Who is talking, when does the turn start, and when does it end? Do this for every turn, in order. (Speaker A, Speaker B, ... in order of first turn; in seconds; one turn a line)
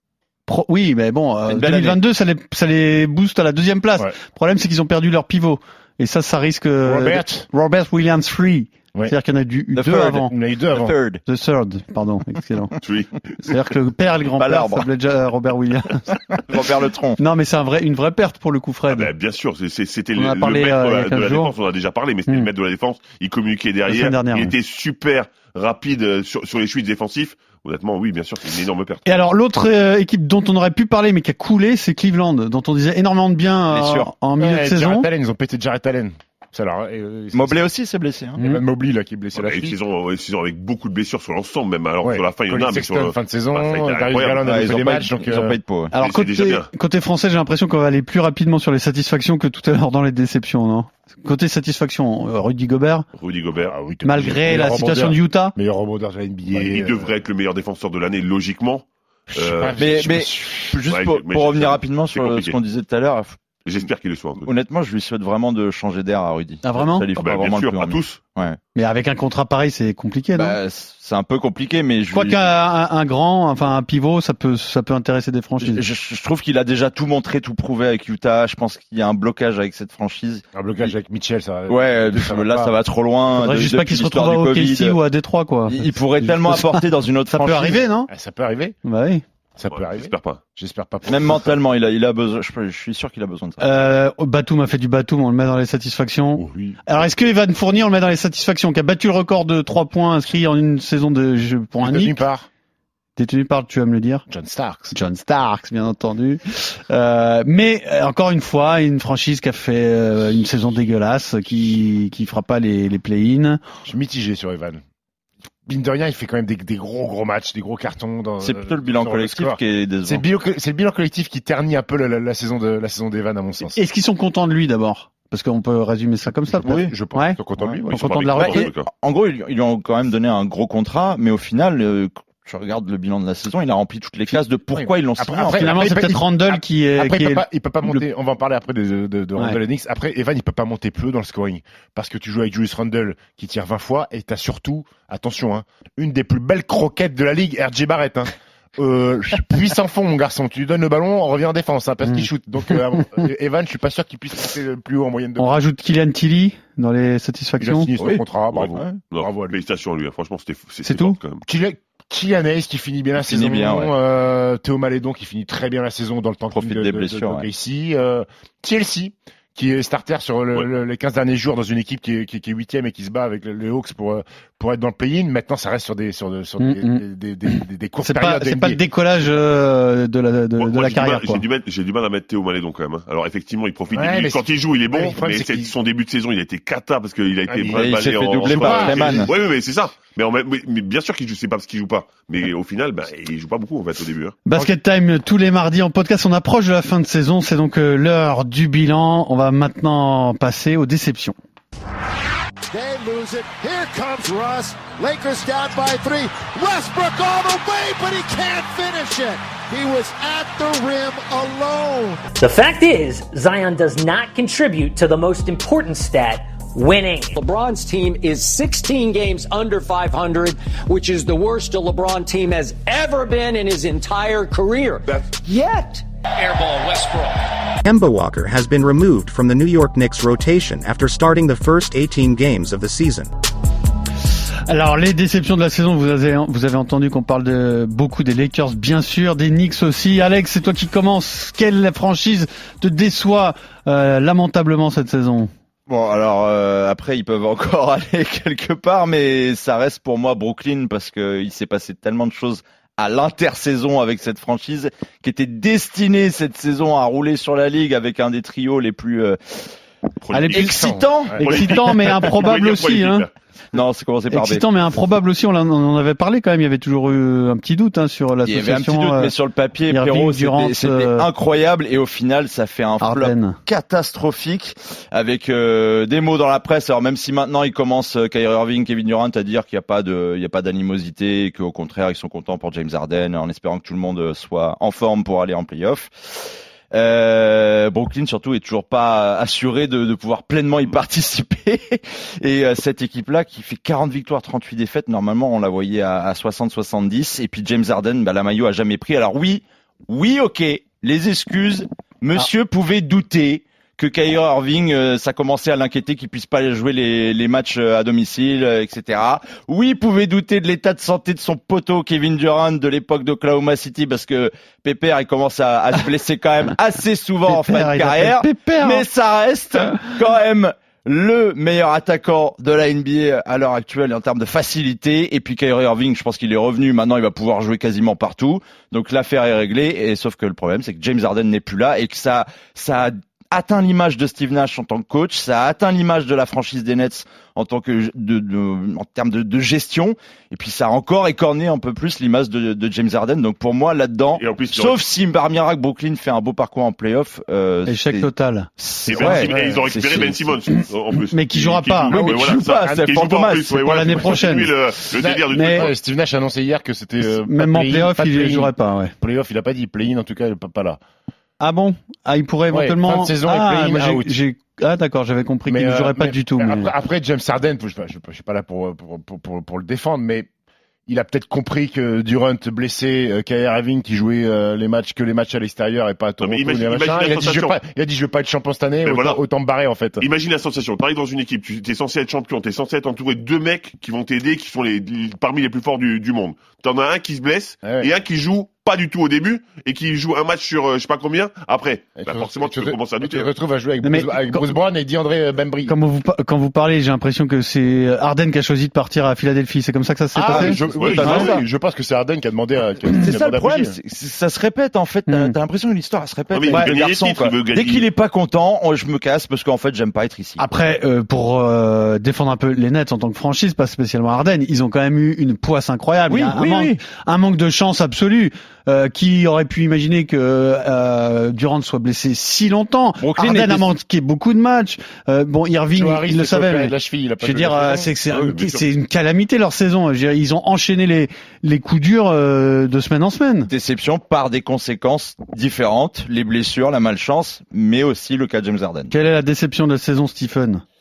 Speaker A: 0.5-10.3
Speaker B: 1.5-2.0
Speaker C: 6.8-7.5
Speaker B: 9.8-11.2
Speaker C: 10.3-10.9
Speaker A: 11.3-12.8
Speaker D: 12.8-13.3
Speaker A: 13.4-16.1
Speaker B: 14.4-14.9
Speaker B: 16.4-17.2
Speaker A: 17.2-19.1
Speaker D: 18.9-29.1
Speaker A: 20.2-21.5
Speaker A: 23.9-24.5
Speaker A: 29.1-35.1
Speaker B: 33.7-34.1
Speaker C: 34.4-37.6
Speaker B: 37.3-38.4
Speaker C: 38.4-39.8
Speaker D: 39.4-44.9
Speaker C: 42.0-45.6
Speaker B: 44.4-45.9
Speaker A: 45.9-53.1
Speaker D: 46.0-46.7
Speaker D: 53.2-53.7
Speaker C: 53.7-57.1
Speaker A: 54.0-55.6
Speaker D: 56.5-59.9
Speaker C: 59.3-60.8
Speaker B: 59.8-63.4
Speaker D: 60.9-62.6
Speaker D: 63.6-64.5
Speaker B: 64.4-68.6
Speaker A: 66.6-67.1
Speaker D: 67.2-68.2
Speaker A: 68.8-70.6
Speaker B: 70.4-72.5
Speaker A: 72.1-75.8
Speaker B: 75.6-80.9
Speaker C: 80.5-82.7
Speaker B: 81.7-85.0
Speaker A: 83.4-88.1
Speaker B: 85.7-87.8
Speaker C: 88.1-88.8
Speaker A: 88.8-89.2
Speaker C: 89.6-91.5
Speaker D: 89.7-90.4
Speaker B: 91.0-93.8
Speaker A: 93.6-102.2
Speaker C: 96.4-96.8
Speaker C: 101.8-102.5
Speaker A: 103.2-104.2
Speaker C: 104.3-104.9
Speaker A: 104.9-113.6
Speaker C: 113.8-114.8
Speaker C: 115.7-123.8
Speaker B: 118.4-120.2
Speaker A: 123.7-128.7
Speaker C: 126.5-128.4
Speaker B: 126.7-126.9
Speaker D: 127.9-128.9
Speaker B: 128.4-136.1
Speaker C: 134.7-155.5
Speaker A: 135.6-138.0
Speaker A: 155.4-157.9
Speaker C: 157.6-159.6
Speaker B: 158.0-159.0
Speaker D: 158.5-161.4
Speaker A: 160.8-161.2
Speaker C: 161.4-178.8
Speaker B: 163.2-163.9
Speaker B: 166.5-167.5
Speaker A: 176.6-177.0
Speaker A: 177.5-181.4
Speaker D: 180.6-194.4
Speaker C: 183.9-185.7
Speaker C: 187.5-189.3
Speaker B: 187.7-189.3
Speaker A: 194.5-201.4
Speaker E: 202.7-212.2
Speaker F: 212.4-217.3
Speaker G: 217.3-227.5
Speaker H: 227.8-233.3
Speaker A: 234.7-245.5
Speaker B: 245.9-259.7
Speaker D: 260.2-260.8
Speaker A: 260.3-260.8
Speaker B: 260.5-261.7
Speaker C: 260.6-261.4
Speaker A: 261.4-263.3
Speaker D: 261.4-263.3
Speaker B: 263.7-264.7
Speaker A: 264.3-269.3
Speaker B: 268.4-350.6
Speaker A: 269.9-271.3
Speaker A: 273.0-273.6
Speaker A: 317.5-319.1
Speaker D: 344.4-345.0
Speaker A: 347.9-349.5
Speaker D: 349.1-355.9
Speaker A: 351.3-352.1
Speaker B: 352.1-353.8
Speaker C: 352.1-353.1
Speaker A: 353.8-354.7
Speaker C: 355.1-361.0
Speaker A: 355.5-355.9
Speaker A: 357.3-359.1
Speaker A: 361.6-366.9
Speaker C: 362.7-364.4
Speaker C: 365.7-370.5
Speaker C: 371.1-380.2
Speaker D: 376.4-377.8
Speaker D: 379.0-379.4
Speaker D: 380.2-393.5
Speaker C: 387.8-388.1
Speaker C: 392.2-395.9
Speaker A: 394.0-394.7
Speaker A: 395.9-401.5
Speaker B: 400.4-401.6
Speaker C: 400.4-403.9
Speaker D: 400.9-401.6
Speaker B: 403.1-410.6
Speaker A: 405.3-405.6
Speaker D: 406.5-408.1
Speaker A: 410.6-433.7
Speaker B: 416.3-417.0
Speaker B: 423.2-423.9
Speaker C: 425.9-428.1
Speaker D: 428.3-428.9
Speaker B: 433.7-439.1
Speaker A: 439.1-440.8